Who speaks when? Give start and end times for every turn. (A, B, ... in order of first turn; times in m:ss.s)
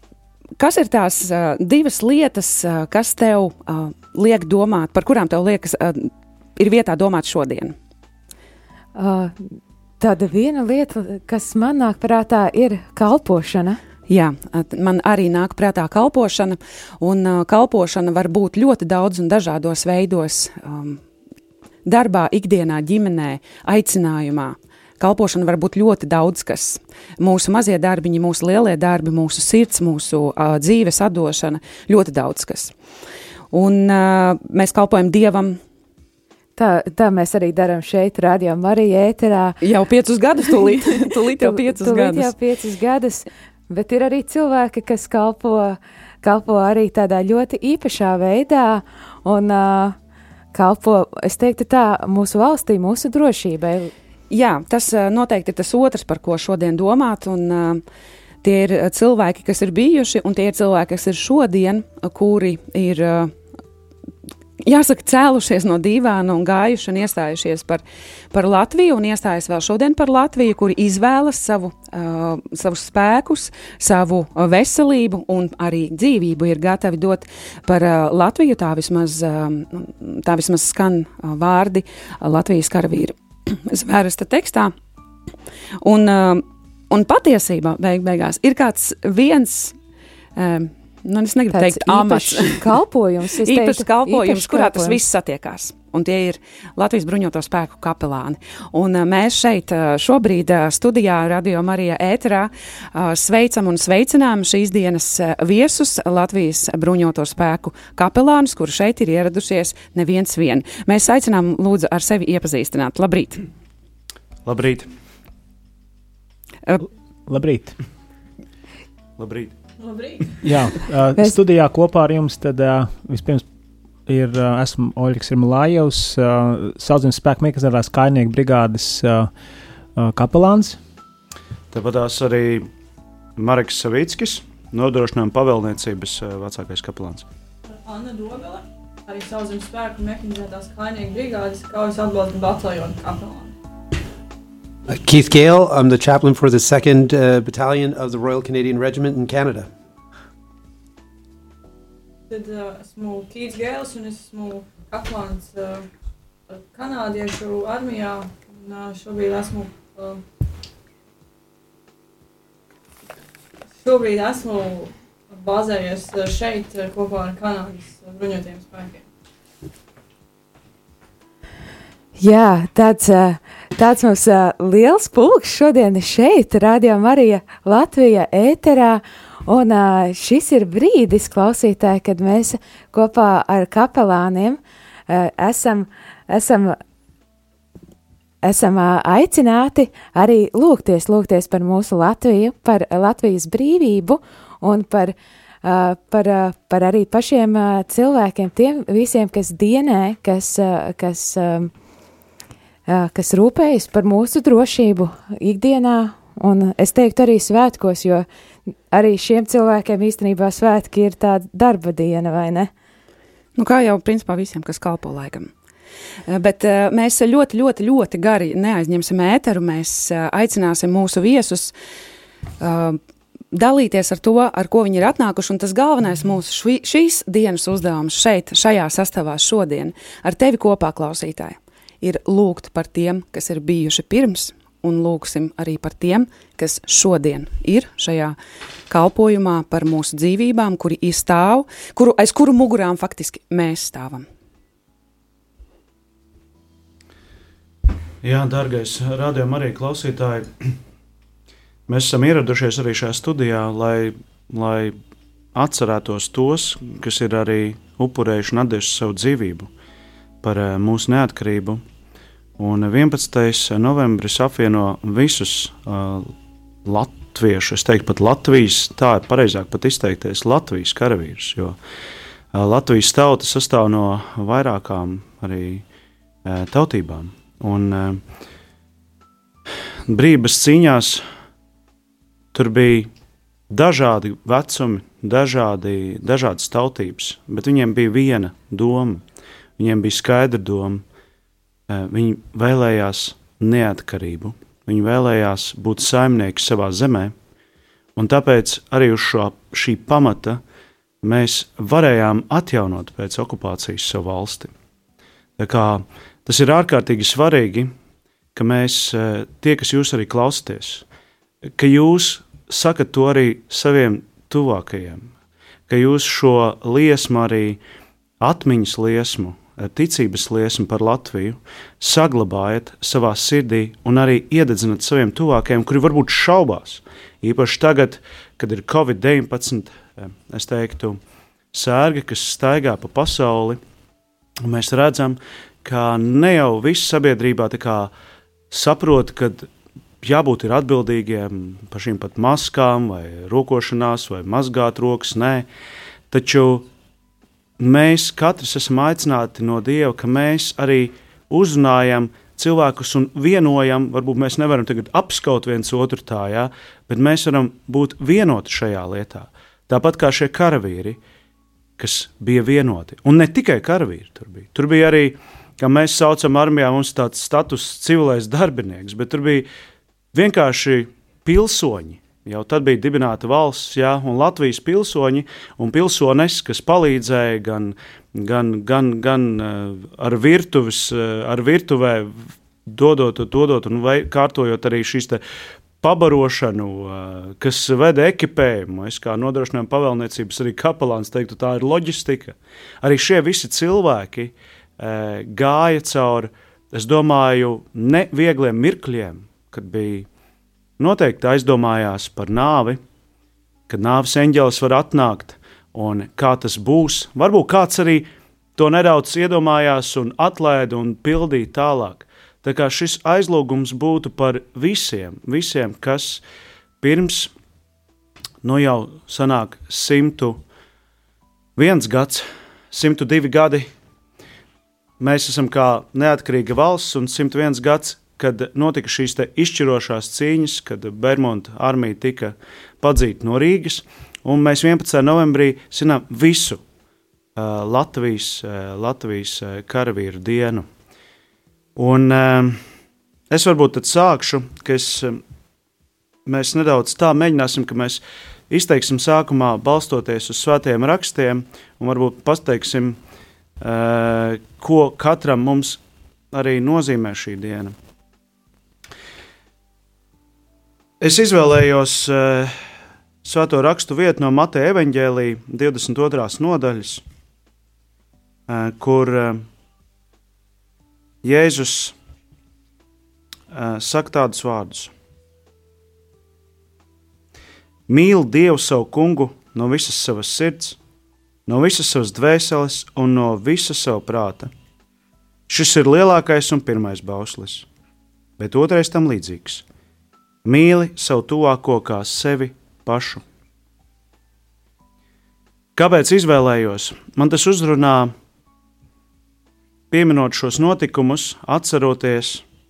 0:00.6-0:07.8 A
0:09.0-0:13.8 B
0:14.1-0:21.0 A
0:21.8-0:32.7 A
0:33.5-0:35.6 A
0:36.6-0:39.6 B
0:39.6-0:42.3 A
0:40.5-0:50.0 B
0:50.5-0:53.9 B
0:54.3-0:57.8 A
0:58.4-1:03.3 A
1:04.6-1:24.7 A
1:25.8-1:29.8 A
1:30.4-1:32.6 A
1:31.5-1:35.0 B
1:33.4-1:53.4 A
1:54.4-1:54.9 C
1:57.3-1:57.8 D
1:59.2-1:59.5 C
1:59.8-2:00.4 E
2:00.4-2:03.4 D
2:04.1-2:09.3 D
2:10.0-2:10.8 D
2:11.7-2:12.7 C
2:13.4-2:17.2 C
2:17.8-2:23.5 E
2:24.9-2:29.7 F
2:32.3-2:35.9 E
2:36.5-2:40.2 E
2:43.8-2:49.0 E
2:52.2-3:06.8 B
3:08.4-3:21.7 B
3:22.9-3:28.3 B
3:28.9-3:32.7 B
3:33.6-3:35.5 A
3:36.3-3:41.7 A
3:42.6-3:43.0 A
3:43.5-3:58.4 A
3:58.9-4:04.2 A
4:08.2-4:10.7 C
4:11.9-4:14.9 C
4:15.5-4:19.7 C
4:20.4-4:21.8 C
4:22.6-4:26.3 C
4:26.8-4:31.8 C
4:32.5-4:35.8 C
4:36.4-4:38.2 C
4:40.1-4:41.2 C
4:42.5-4:43.1 C
4:43.7-4:49.2 C
4:49.8-4:51.0 C
4:51.9-4:57.3 C
4:58.2-5:00.6 C
5:01.2-5:04.7 C
5:05.6-5:07.9 C
5:08.5-5:11.0 C
5:11.8-5:15.3 C
5:15.9-5:17.8 C
5:18.4-5:31.2 C
5:31.7-5:33.8 C
5:34.6-5:38.1 C
5:38.7-5:39.7 C
5:40.2-5:45.7 C
5:46.3-5:46.9 C
5:47.8-6:01.2 C
6:02.0-6:09.7 C
6:10.3-6:22.3 C
6:22.8-6:25.4 C
6:26.0-6:40.3 C
6:41.0-6:43.0 C
6:43.9-6:56.4 C
6:57.0-6:57.5 C
6:58.6-7:00.6 C
7:01.8-7:03.9 C
7:05.2-7:16.8 C
7:17.6-7:20.8 C
7:22.0-7:22.8 C
7:23.5-7:25.4 C
7:26.4-7:33.2 C
7:33.8-7:36.0 C
7:36.5-7:37.9 C
7:41.2-7:42.7 C
7:43.4-7:47.2 C
7:48.7-7:49.6 C
7:51.4-7:52.1 C
7:53.7-7:55.1 C
7:58.1-8:01.0 C
8:01.7-8:04.7 C
8:05.7-8:07.9 C
8:08.6-8:09.8 C
8:10.6-8:13.4 C
8:16.0-8:18.3 C
8:20.1-8:22.6 C